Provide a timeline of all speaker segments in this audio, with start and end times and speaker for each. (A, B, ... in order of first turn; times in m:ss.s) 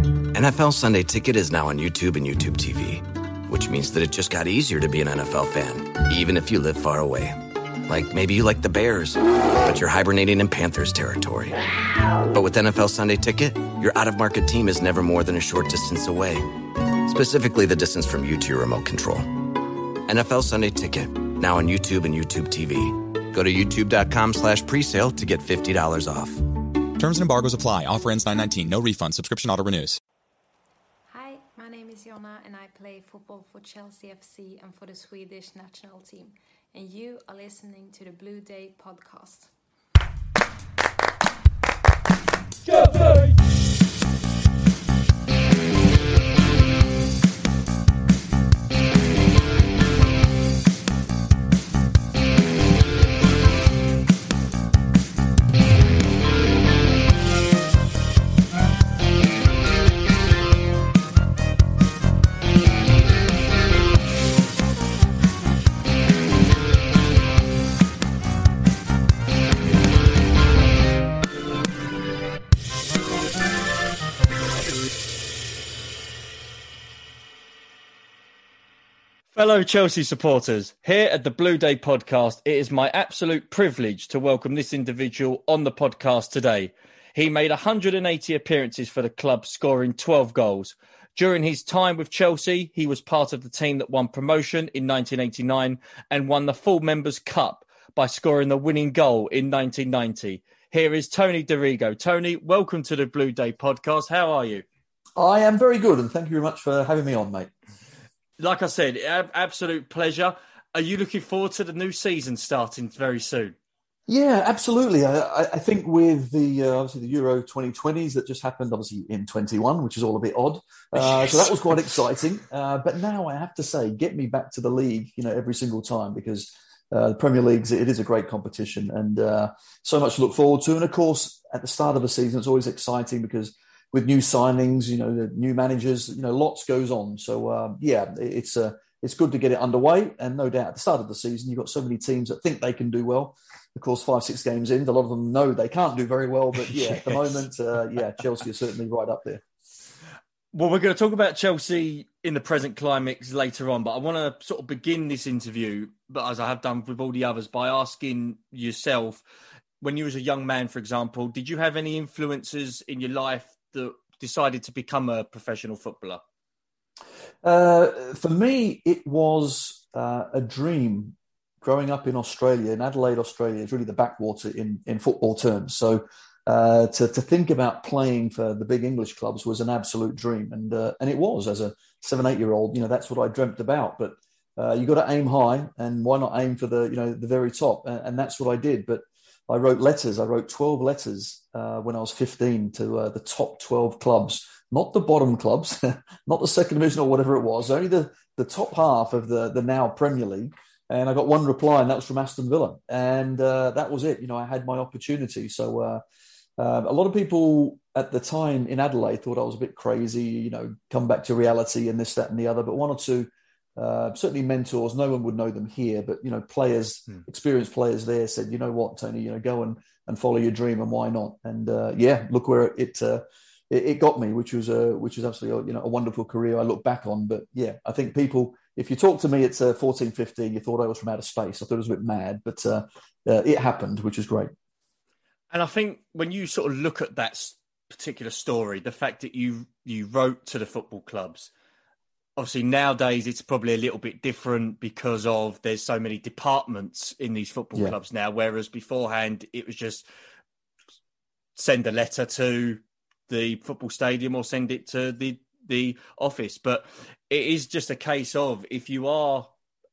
0:00.3-0:11.6 A
0:12.3-0:19.5 A
0:20.1-0:26.4 A
0:27.0-0:30.0 B
0:31.1-0:39.5 C
0:42.7-0:43.2 C
1:19.3-1:44.6 D
1:45.2-1:47.5 E
1:48.4-1:53.6 D
1:54.1-2:29.4 E
2:30.5-2:39.2 D
2:39.8-2:46.2 D
2:47.4-3:26.0 E
3:26.6-3:54.5 E
3:55.5-4:01.5 D
4:02.4-4:10.0 D
4:11.6-4:19.5 D